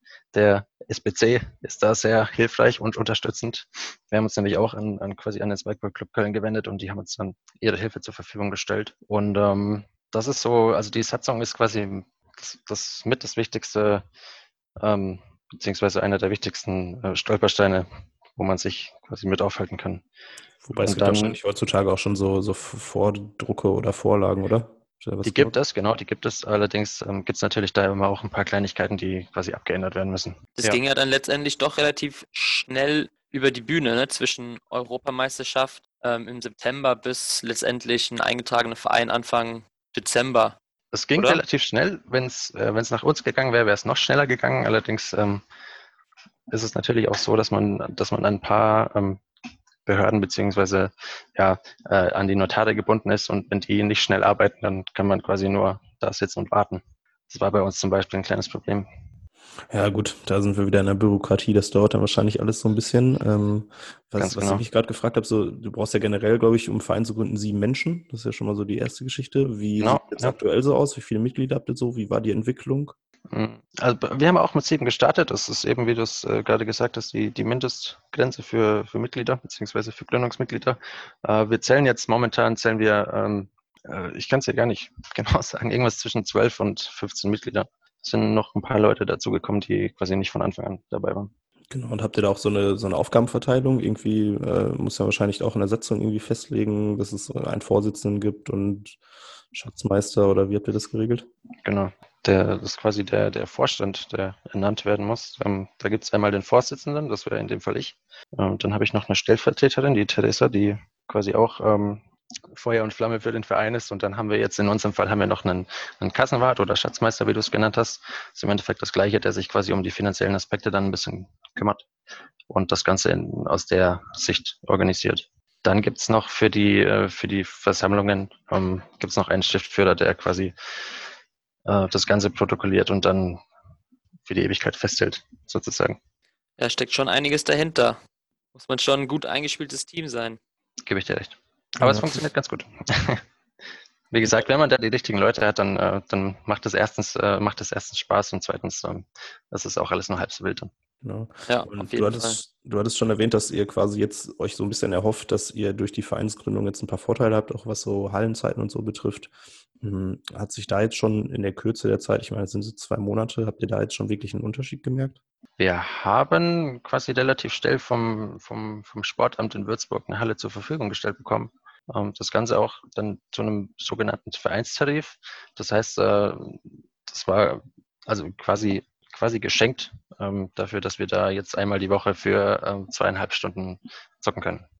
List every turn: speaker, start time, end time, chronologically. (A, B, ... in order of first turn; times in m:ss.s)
0:00.3-0:14.0 A
0:14.8-0:20.0 A
0:20.6-0:25.5 B
0:20.8-0:21.4 A
0:25.2-0:30.8 A
0:30.6-0:40.6 C
0:40.9-0:45.4 A
0:41.2-0:41.4 C
0:46.5-0:49.2 A
0:49.8-0:58.8 A
0:59.7-1:12.9 B
1:04.2-1:04.6 A
1:09.8-1:10.3 A
1:13.3-1:31.3 A
1:31.7-1:39.0 B
1:39.5-1:41.3 B
1:41.6-2:01.8 A
2:02.5-2:10.5 A
2:11.6-2:13.4 A
2:14.2-2:16.0 A
2:16.6-2:18.0 C
2:18.5-2:20.4 C
2:20.8-2:23.2 A
2:21.8-2:22.2 B
2:24.1-2:30.7 A
2:31.0-2:45.2 B
2:31.5-2:32.4 C
2:45.6-3:04.6 A